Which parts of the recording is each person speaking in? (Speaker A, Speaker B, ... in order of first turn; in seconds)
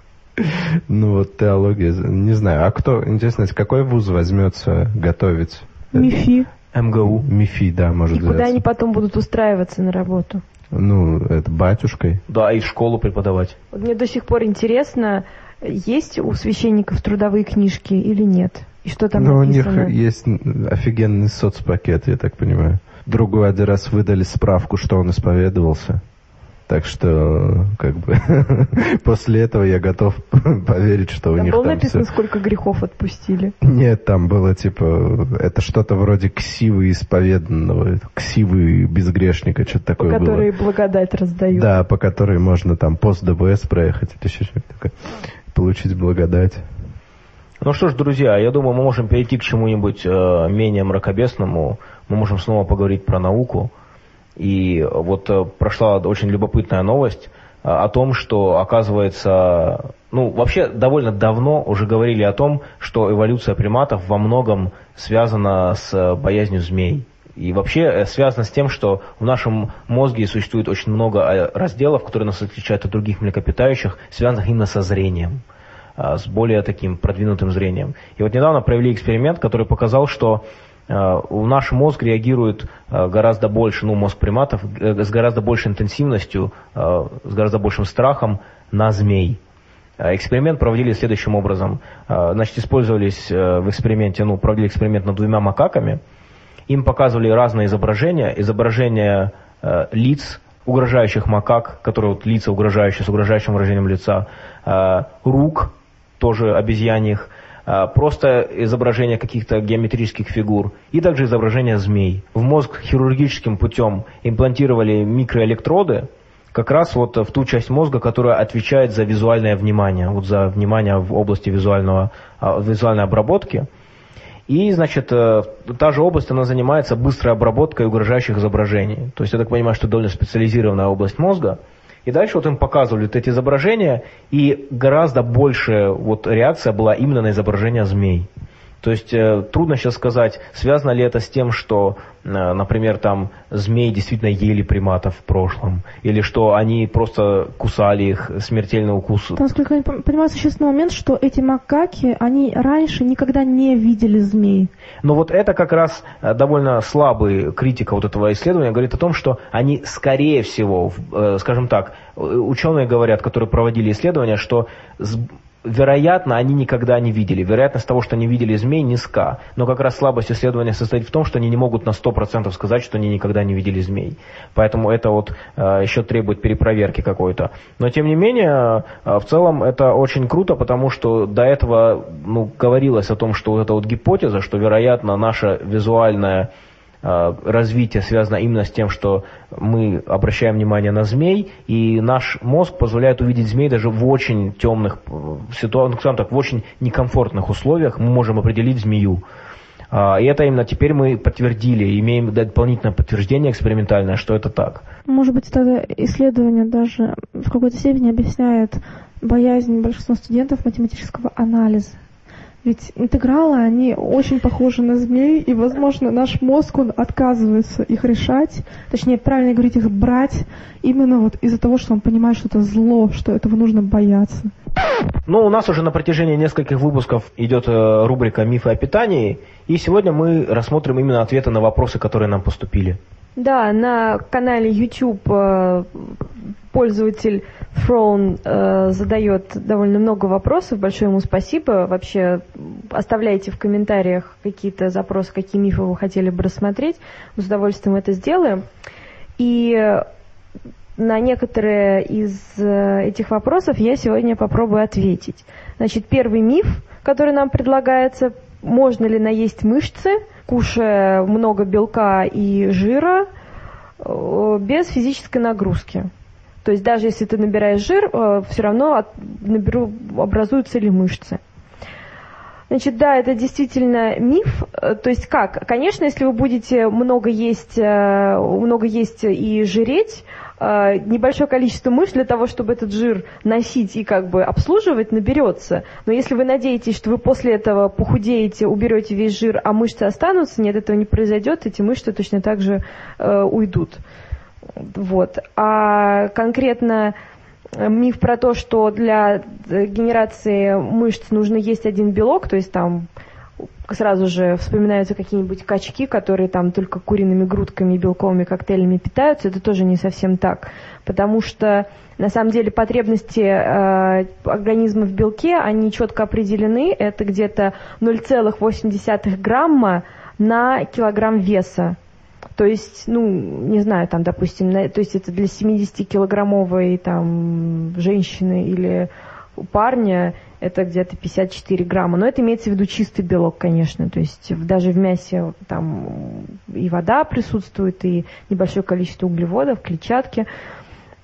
Speaker A: 0.4-6.2, 7.0-8.6, 10.7-12.2, 19.1-26.0, 26.7-32.1, 33.6-40.5, 41.5-45.0, 45.5-46.6
Speaker B: 5.9-6.5, 149.4-154.7, 205.1-212.0, 212.6-224.5
Speaker C: 6.7-7.3, 12.3-13.6, 47.6-53.7, 54.4-75.4, 76.0-89.4, 90.0-96.0, 96.7-123.7, 124.5-138.3, 138.8-149.4, 155.0-186.5, 187.0-199.2, 199.9-204.8, 225.3-233.0
Speaker D: 8.1-10.4, 13.7-19.9, 31.4-33.5, 40.0-41.7, 233.4-236.2, 236.7-248.6, 249.4-250.1, 251.0-263.3, 264.0-266.1, 266.6-271.4, 272.7-294.0, 294.9-297.1, 297.8-303.1, 303.9-322.0, 322.6-340.5